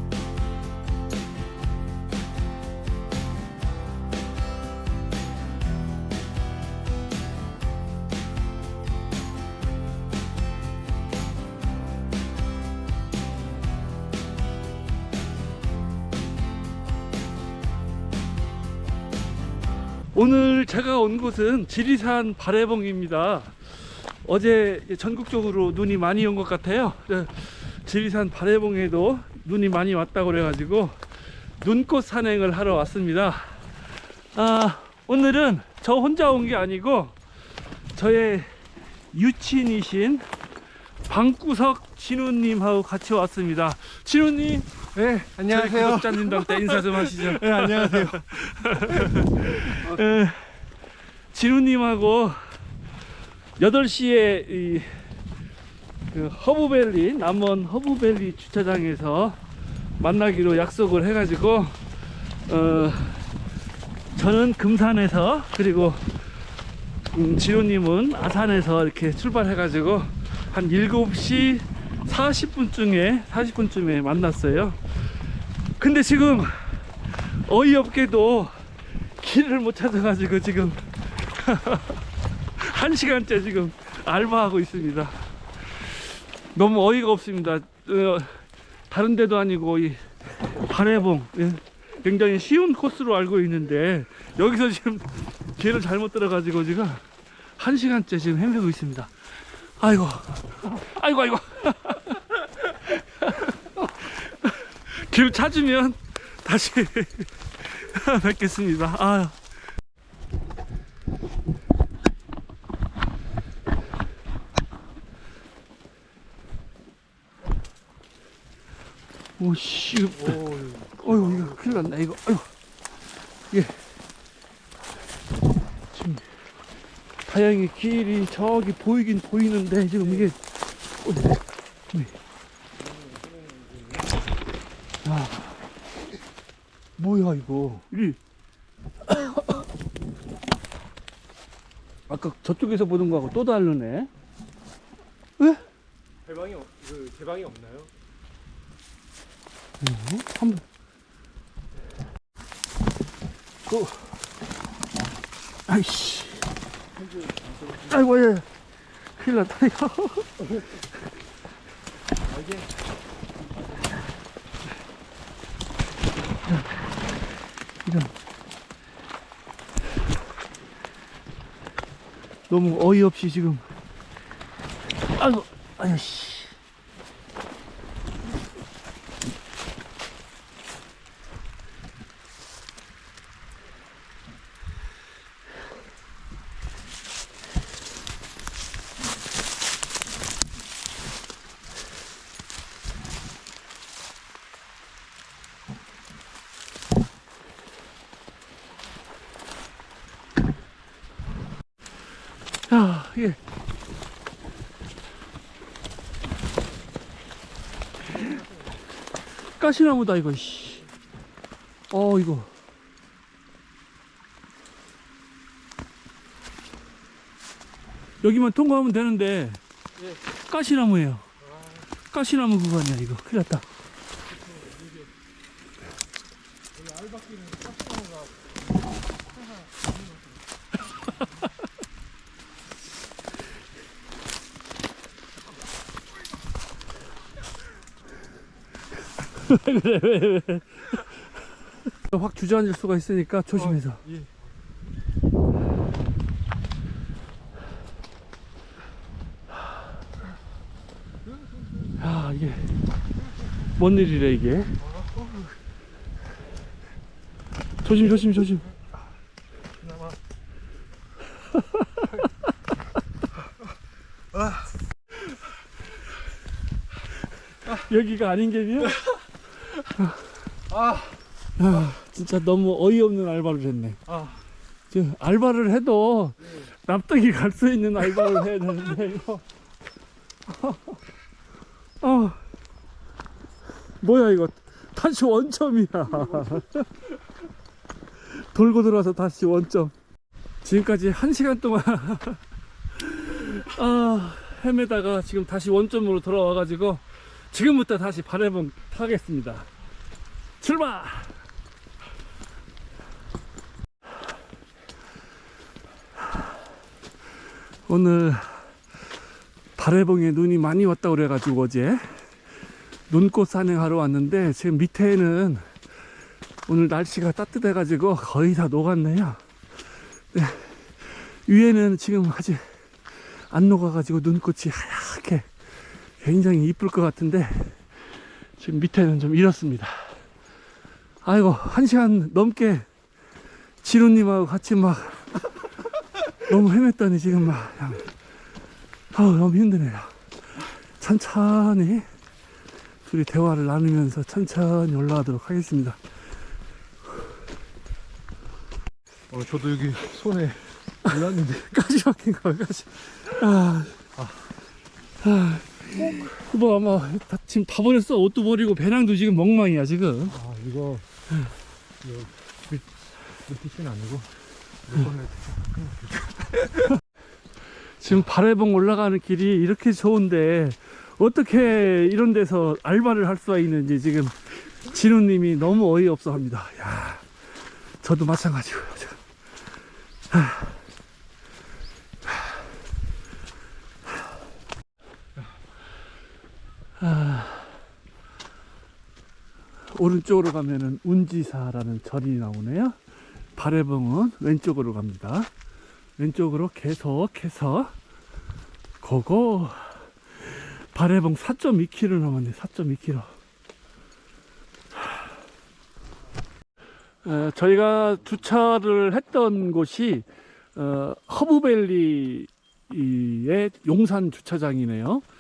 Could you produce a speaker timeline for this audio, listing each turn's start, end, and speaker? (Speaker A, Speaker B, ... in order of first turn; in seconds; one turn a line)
Speaker A: 20.1-31.0
Speaker A: 31.6-33.7
Speaker A: 34.3-37.2
Speaker A: 37.9-38.5
Speaker A: 39.1-40.3
Speaker A: 41.1-44.7
Speaker B: 45.0-48.2
Speaker A: 45.5-50.6
Speaker B: 48.9-50.0
Speaker A: 51.3-52.6
Speaker A: 53.6-54.9
Speaker A: 56.1-59.4
Speaker A: 60.0-63.3
Speaker A: 64.1-66.2
Speaker A: 67.1-75.1
Speaker A: 75.8-78.5
Speaker A: 79.2-82.0
Speaker A: 82.6-109.4
Speaker A: 119.4-120.4
Speaker B: 120.2-121.8
Speaker A: 121.0-122.5
Speaker A: 123.5-123.8
Speaker A: 125.9-126.3
Speaker A: 127.3-130.4
Speaker A: 131.0-131.4
Speaker B: 132.9-134.1
Speaker A: 135.0-135.6
Speaker A: 137.0-138.2
Speaker A: 139.1-139.6
Speaker A: 142.1-144.1
Speaker B: 146.2-147.9
Speaker A: 149.8-150.6
Speaker A: 153.7-154.1
Speaker A: 155.7-156.5
Speaker B: 157.0-158.0
Speaker A: 157.9-158.5
Speaker A: 159.2-160.4
Speaker B: 162.2-162.7
Speaker A: 167.8-168.1
Speaker A: 172.5-173.7
Speaker A: 175.1-176.6
Speaker A: 202.7-203.4
Speaker A: 209.6-210.9
Speaker A: 211.9-212.5
Speaker A: 218.2-219.6
Speaker A: 220.5-221.3
Speaker A: 222.1-223.7
Speaker B: 224.6-224.9
Speaker B: 227.0-228.2
Speaker A: 239.1-241.3
Speaker A: 241.9-244.0
Speaker B: 243.6-244.3
Speaker A: 252.0-252.8
Speaker A: 253.6-254.8
Speaker B: 255.0-255.4
Speaker A: 257.8-258.7
Speaker A: 267.7-269.0
Speaker A: 269.9-270.2
Speaker B: 270.8-271.1
Speaker A: 271.6-274.0
Speaker A: 274.9-279.4
Speaker A: 280.5-281.0
Speaker A: 282.0-282.4
Speaker A: 284.0-286.9
Speaker A: 288.2-289.9
Speaker A: 290.6-292.4
Speaker A: 292.9-299.7
Speaker A: 300.6-301.4
Speaker A: 307.9-308.8
Speaker A: 309.8-312.3
Speaker A: 313.1-315.7
Speaker A: 316.7-319.4
Speaker A: 320.3-325.5
Speaker A: 326.2-327.9
Speaker A: 328.6-330.2
Speaker A: 331.2-332.9
Speaker A: 333.8-335.6
Speaker A: 336.4-338.1
Speaker A: 339.1-342.1
Speaker A: 343.1-346.0
Speaker B: 349.3-351.7
Speaker A: 351.1-354.1
Speaker B: 354.2-354.4
Speaker A: 355.2-360.4
Speaker B: 360.3-361.1
Speaker B: 362.0-364.3
Speaker B: 364.9-366.8
Speaker A: 367.9-377.3
Speaker A: 378.0-379.2
Speaker A: 380.3-380.8
Speaker A: 387.0-387.8
Speaker A: 389.9-393.0
Speaker A: 393.6-395.5
Speaker A: 396.2-397.9
Speaker A: 399.0-403.3
Speaker A: 407.2-415.2